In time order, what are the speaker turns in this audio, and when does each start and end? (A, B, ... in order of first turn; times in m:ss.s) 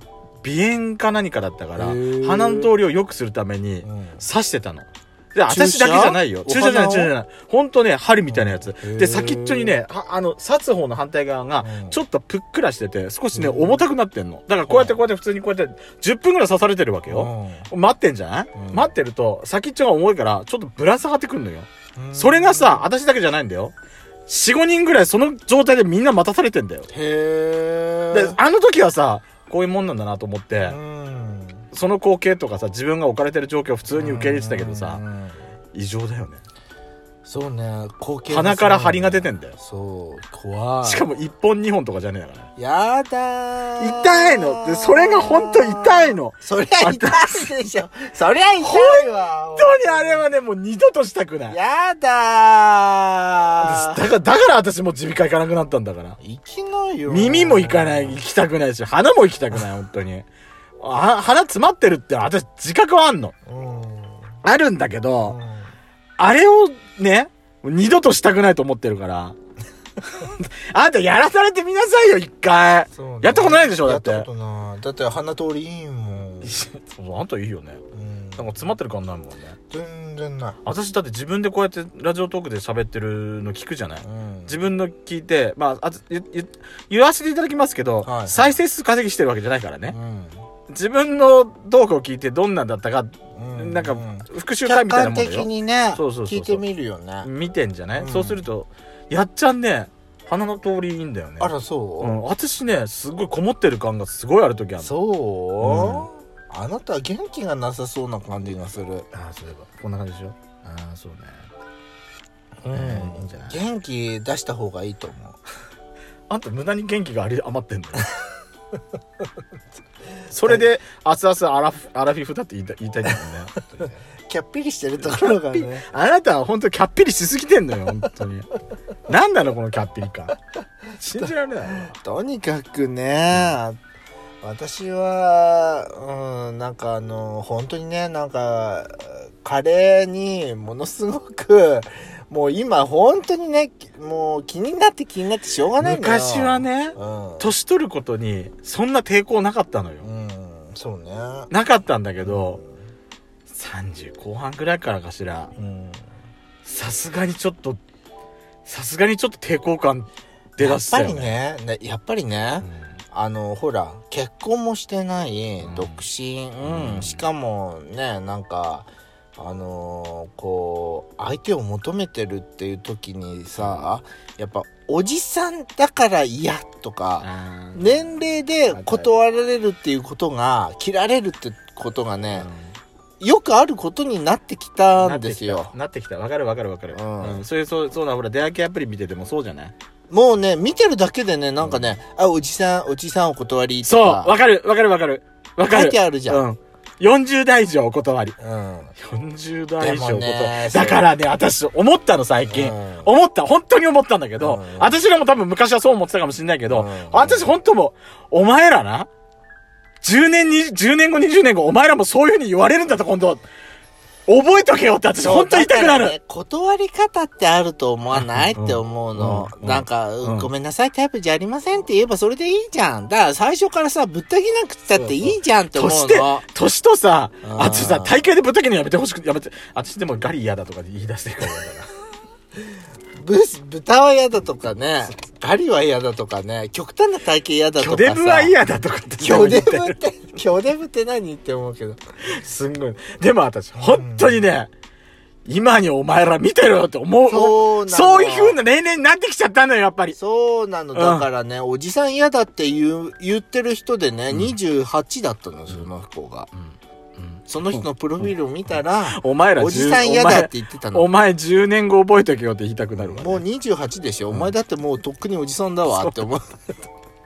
0:00.4-0:23.7 A
0:01.8-0:02.8 B
0:03.8-0:04.3 B
0:05.5-0:07.1 B
0:08.3-0:09.8 B
0:11.6-0:12.0 B
0:13.3-0:13.9 B
0:14.7-0:15.0 B
0:17.1-0:17.7 B
0:18.6-0:18.9 B
0:22.0-0:22.9 B
0:24.3-0:26.9 A
0:26.9-0:28.4 B
0:28.1-0:30.8 A
0:30.6-0:31.7 B
0:31.7-0:35.0 A
0:33.9-0:35.4 B
0:35.7-0:36.4 A
0:37.2-0:41.1 B
0:38.3-0:39.6 A
0:40.8-0:42.5 A
0:42.6-0:50.2 B
0:43.8-0:47.5 A
0:48.6-0:51.6 A
0:51.5-0:54.1 B
0:53.6-0:56.2 A
0:56.2-0:58.2 B
0:57.1-1:00.2 A
1:00.8-1:03.3 A
1:03.5-1:04.3 B
1:04.4-1:05.4 A
1:05.2-1:05.7 B
1:06.2-1:09.4 A
1:10.1-1:14.3 A
1:12.9-1:16.6 B
1:16.4-1:17.8 A
1:17.9-1:18.7 B
1:18.4-1:19.6 A
1:19.7-1:20.6 B
1:20.6-1:30.0 A
1:24.0-1:24.7 B
1:28.0-1:28.6 B
1:29.9-1:30.4 B
1:30.7-1:36.6 A
1:33.3-1:37.3 B
1:37.2-1:44.9 A
1:37.9-1:38.5 B
1:41.4-1:42.2 B
1:44.8-1:49.1 B
1:45.6-1:46.1 A
1:49.1-1:51.5 A
1:52.6-1:55.4 B
1:52.7-1:53.6 A
1:56.3-1:58.1 A
2:00.3-2:03.6 A
2:03.6-2:05.9 B
2:05.0-2:08.5 A
2:09.1-2:10.4 A
2:10.9-2:12.0 A
2:11.9-2:13.8 B
2:14.4-2:27.6 B
2:25.8-2:30.1 A
2:30.0-2:31.5 B
2:31.5-2:32.6 A
2:32.2-2:32.8 B
2:33.5-2:35.5 A
2:35.6-2:36.0 B
2:36.6-2:37.8 A
2:38.6-2:41.4 A
2:40.6-3:02.5 B
2:42.6-2:42.9 A
2:45.6-2:46.0 A
2:46.6-2:47.2 A
2:53.6-2:53.9 A
2:57.2-2:59.1 A
3:02.3-3:02.7 A
3:03.2-3:05.7 B
3:05.0-3:09.7 A
3:06.9-3:07.4 B
3:10.1-3:14.4 B
3:11.6-3:12.0 A
3:13.8-3:18.4 A
3:15.6-3:16.4 B
3:18.4-3:18.9 B
3:19.0-3:29.1 A
3:19.8-3:21.1 B
3:22.5-3:23.1 B
3:24.4-3:25.0 B
3:26.7-3:27.6 B
3:30.0-3:33.4 A
3:34.3-3:36.2 A
3:35.2-3:46.4 B
3:38.1-3:40.5 A
3:44.9-3:51.9 A
3:47.4-3:48.3 B
3:53.2-3:58.6 B
3:57.8-4:00.0 A
3:59.2-4:02.0 B
4:02.2-4:04.7 A
4:03.8-4:04.5 B
4:05.5-4:10.2 A
4:07.3-4:08.6 B
4:10.1-4:16.5 B
4:10.9-4:11.3 A
4:14.3-4:14.6 A
4:16.5-4:23.4 A
4:17.5-4:21.1 B
4:23.0-4:26.5 B
4:25.9-4:26.2 A